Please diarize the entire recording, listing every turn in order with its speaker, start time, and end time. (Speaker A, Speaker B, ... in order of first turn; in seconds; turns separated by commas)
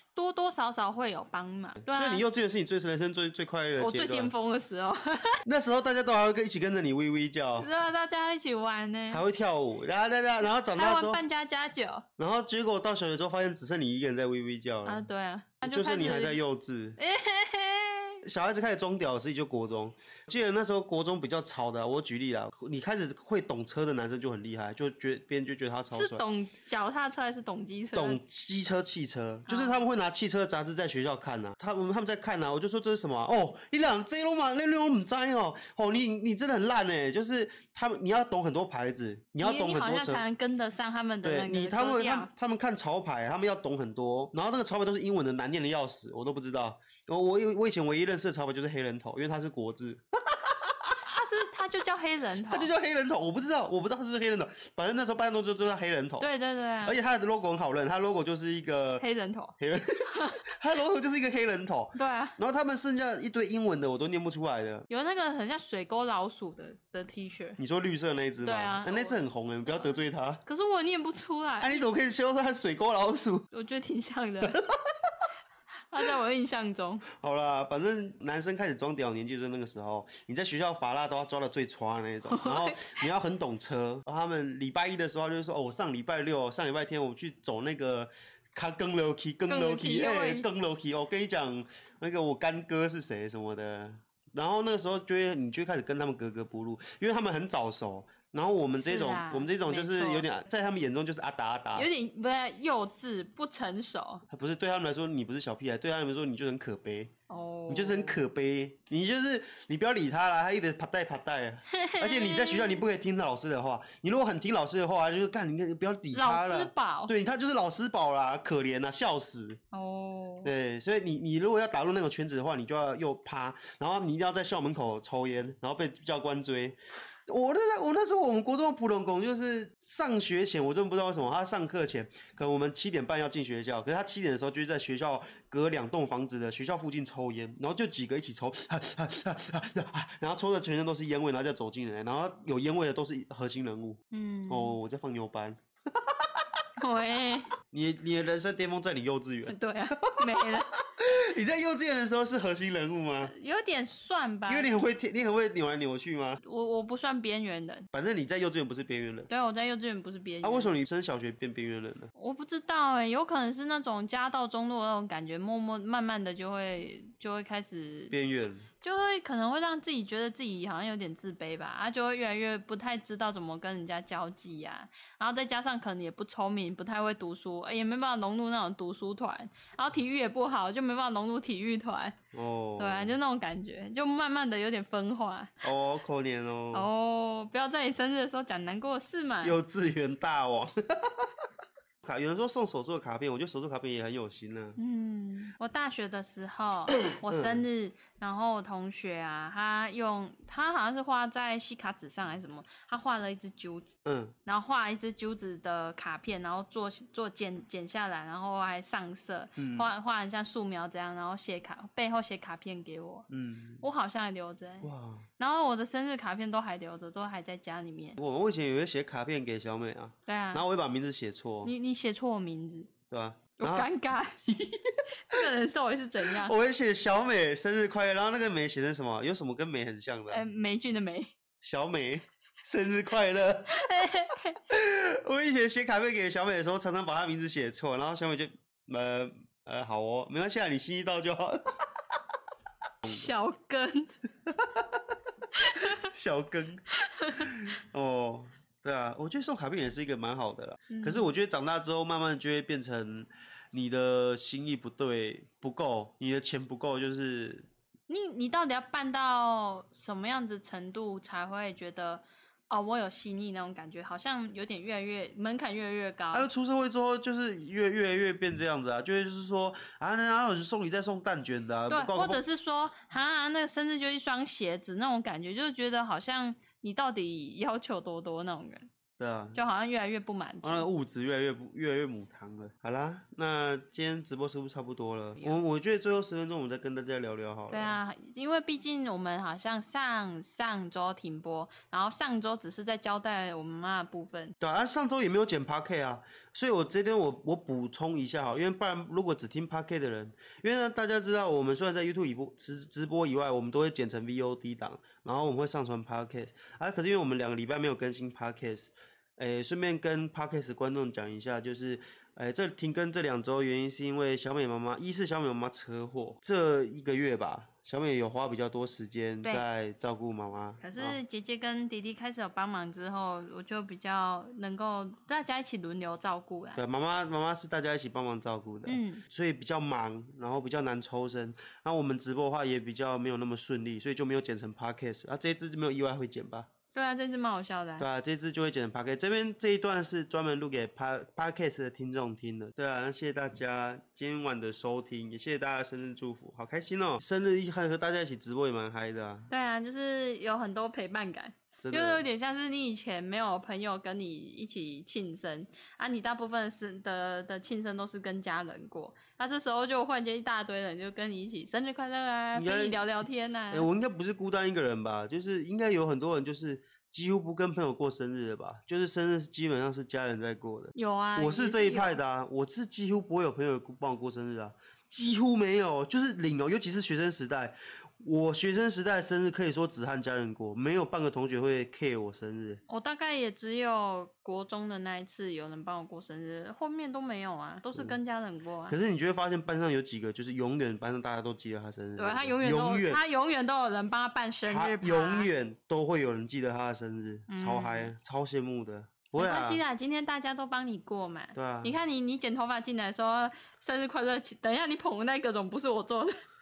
Speaker A: 0.1-2.2, Speaker B: 1.8-4.3, Speaker A: 3.8-5.4, Speaker B: 5.5-7.7, Speaker A: 7.6-9.2, Speaker B: 9.1-11.2, Speaker A: 10.7-12.1, Speaker B: 12.2-15.0, Speaker A: 14.8-16.4, Speaker B: 15.6-17.0, Speaker A: 17.0-18.2, Speaker B: 18.2-26.2, Speaker A: 25.9-28.2, Speaker B: 27.9-40.2, Speaker A: 29.5-29.8, Speaker A: 39.4-42.3, Speaker B: 41.2-51.0, Speaker A: 51.0-52.7, Speaker B: 52.5-56.3, Speaker A: 56.2-57.0, Speaker B: 56.8-59.0, Speaker A: 59.0-59.6, Speaker B: 59.6-64.9, Speaker A: 60.1-60.4, Speaker A: 62.0-62.4, Speaker A: 64.9-67.6, Speaker B: 67.6-70.4, Speaker A: 68.4-71.8, Speaker B: 71.6-73.5, Speaker A: 73.5-74.6, Speaker B: 74.4-75.3, Speaker A: 75.9-77.0, Speaker B: 77.1-101.9, Speaker A: 82.3-83.0, Speaker A: 89.5-90.5, Speaker A: 98.7-100.3, Speaker A: 101.8-104.2, Speaker B: 104.3-107.1, Speaker A: 107.3-108.2, Speaker B: 107.7-119.6, Speaker A: 111.7-112.8, Speaker A: 116.1-117.1, Speaker A: 119.7-120.5, Speaker B: 120.4-146.6, Speaker A: 144.1-144.8, Speaker A: 146.8-147.5, Speaker B: 147.7-153.3, Speaker A: 149.5-150.7, Speaker A: 153.2-154.7, Speaker B: 154.5-156.4, Speaker A: 156.4-157.9, Speaker B: 157.9-159.3, Speaker A: 159.3-160.7, Speaker B: 160.4-162.1, Speaker A: 162.2-168.1, Speaker B: 168.1-168.7, Speaker A: 168.8-182.2, Speaker B: 182.3-183.1, Speaker A: 182.8-185.6, Speaker B: 185.6-186.9, Speaker A: 186.7-189.6, Speaker B: 189.4-191.3, Speaker B: 192.0-194.8, Speaker A: 194.8-203.9, Speaker B: 197.0-197.7, Speaker B: 204.1-204.3, Speaker A: 204.5-213.3, Speaker B: 209.6-209.9, Speaker B: 213.3-213.8, Speaker A: 213.8-218.2, Speaker B: 214.8-215.3, Speaker B: 218.2-221.7, Speaker A: 220.3-220.6, Speaker A: 221.6-222.9, Speaker B: 223.1-223.9, Speaker A: 223.6-224.4, Speaker B: 224.5-225.4, Speaker A: 225.3-226.6, Speaker B: 226.2-230.4, Speaker A: 230.3-231.3, Speaker B: 231.6-233.8, Speaker A: 233.7-234.6, Speaker B: 234.7-241.6, Speaker A: 243.0-244.1, Speaker B: 244.5-245.0, Speaker A: 245.6-246.1, Speaker B: 245.8-257.7, Speaker A: 246.9-247.5, Speaker A: 250.9-251.3, Speaker A: 258.1-266.5, Speaker B: 266.3-272.4, Speaker A: 271.9-278.9, Speaker B: 279.2-279.6, Speaker A: 279.6-280.9, Speaker B: 280.6-288.0, Speaker A: 287.7-294.6, Speaker B: 294.6-321.2, Speaker A: 320.8-326.8, Speaker B: 326.8-336.7, Speaker A: 328.9-329.2, Speaker A: 336.9-338.1, Speaker B: 338.0-349.5, Speaker A: 349.5-363.9, Speaker B: 351.8-352.2, Speaker B: 362.6-382.8, Speaker A: 370.9-372.2, Speaker A: 382.9-389.0, Speaker B: 388.9-393.2, Speaker A: 392.2-395.5, Speaker B: 394.7-399.8, Speaker A: 397.5-398.1, Speaker A: 399.4-406.4, Speaker B: 401.5-402.0